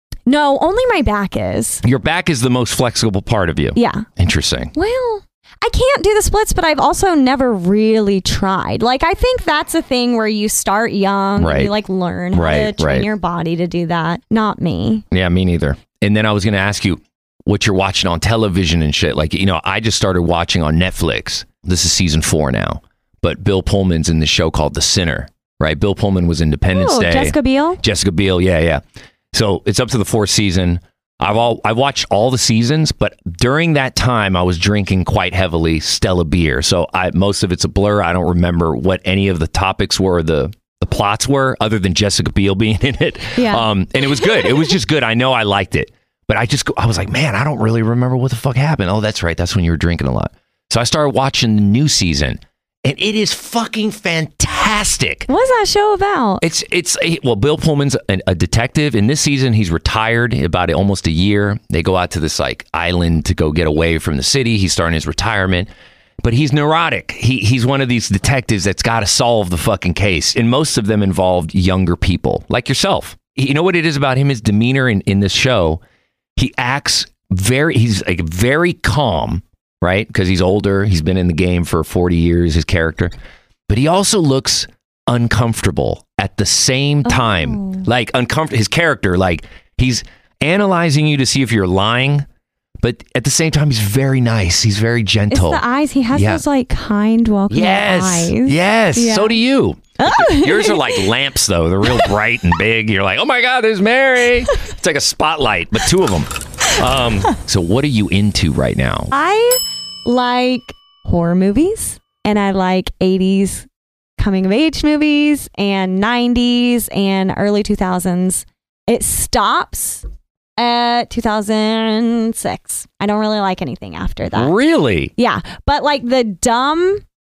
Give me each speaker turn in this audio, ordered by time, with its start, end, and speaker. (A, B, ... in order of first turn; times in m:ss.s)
0:00.3-0:01.8 A
0:01.8-0:04.7 B
0:03.8-0:04.1 A
0:04.8-0:15.0 A
0:11.4-0:11.7 B
0:12.3-0:13.1 B
0:15.1-0:55.3 B
0:26.7-0:27.8 A
0:43.4-0:43.7 A
0:55.3-0:56.4 A
0:56.4-1:15.8 B
1:16.4-1:23.1 B
1:23.7-1:32.3 B
1:27.0-1:27.9 A
1:32.8-1:36.4 B
1:35.3-1:39.4 A
1:37.5-1:49.1 B
1:40.0-1:41.1 A
1:41.9-1:42.1 A
1:49.1-1:53.7 A
1:54.2-2:00.0 A
2:00.6-2:04.5 A
2:04.3-2:05.1 B
2:05.2-2:07.0 A